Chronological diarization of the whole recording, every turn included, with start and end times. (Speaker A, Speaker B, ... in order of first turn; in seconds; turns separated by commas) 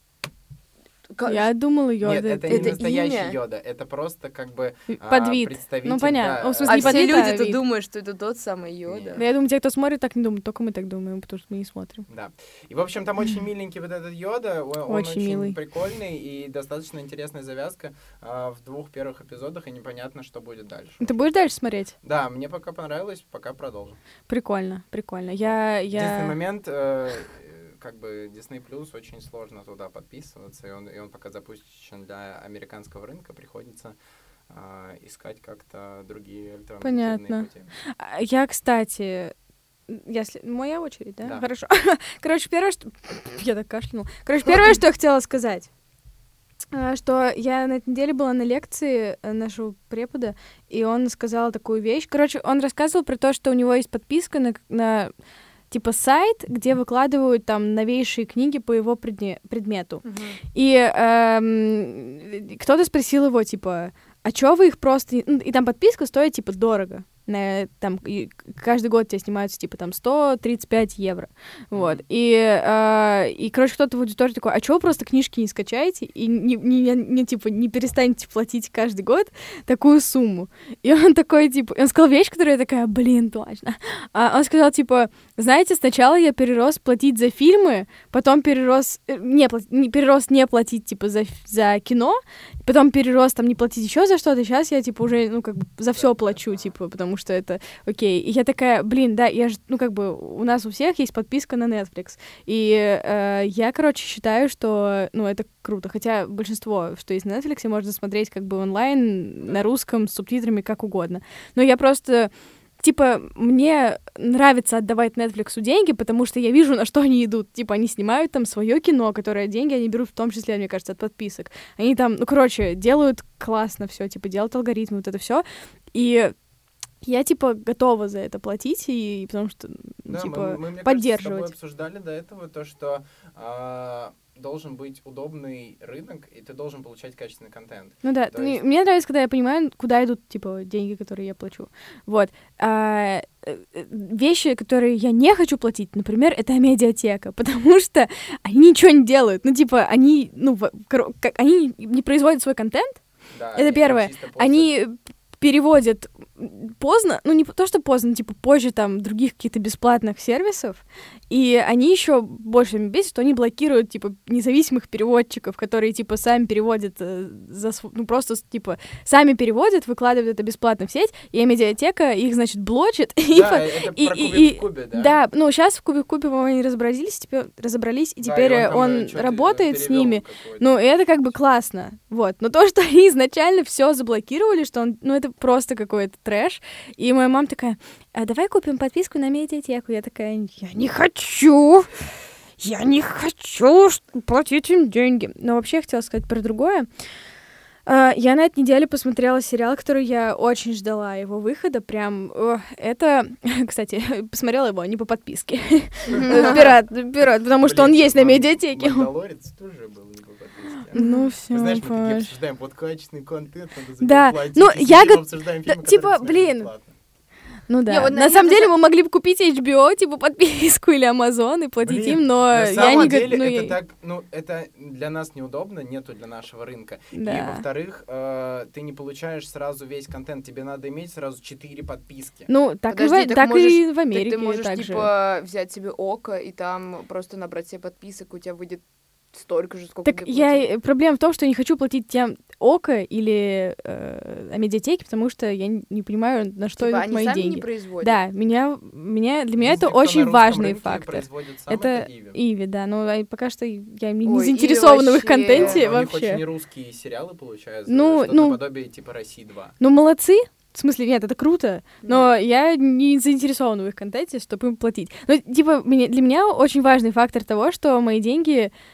Speaker A: 1.1-1.5, Speaker B: 1.2-2.8, Speaker C: 2.0-7.3, Speaker A: 2.5-3.4, Speaker B: 4.9-7.6, Speaker A: 6.7-9.2, Speaker C: 8.9-9.2, Speaker B: 9.1-12.1, Speaker C: 12.1-21.2, Speaker B: 14.9-15.6, Speaker B: 21.0-21.9, Speaker C: 22.0-24.0, Speaker B: 24.3-26.4, Speaker C: 25.4-34.0, Speaker C: 34.5-37.7, Speaker B: 36.8-39.3, Speaker B: 39.9-45.7, Speaker C: 41.2-41.5, Speaker B: 46.7-55.1, Speaker B: 55.7-126.3, Speaker A: 60.0-60.4, Speaker C: 71.7-72.0, Speaker C: 95.9-96.7, Speaker B: 127.0-131.5, Speaker C: 130.1-138.6, Speaker B: 138.0-153.0, Speaker C: 153.3-154.7, Speaker B: 153.5-191.9, Speaker C: 173.3-175.2, Speaker C: 178.2-181.4, Speaker B: 192.6-196.9, Speaker B: 197.8-209.1, Speaker C: 206.2-206.7, Speaker A: 206.2-206.6, Speaker C: 207.5-216.9, Speaker B: 210.9-212.3, Speaker B: 214.0-216.7, Speaker B: 217.7-223.8, Speaker A: 217.8-218.7, Speaker C: 221.8-232.5, Speaker B: 227.1-227.6, Speaker B: 232.5-235.1, Speaker A: 232.9-240.7, Speaker B: 240.1-256.4, Speaker A: 246.8-248.2, Speaker C: 249.6-252.4, Speaker A: 254.2-255.8, Speaker C: 255.5-259.8, Speaker B: 257.9-258.6, Speaker B: 259.8-268.7, Speaker A: 262.0-262.3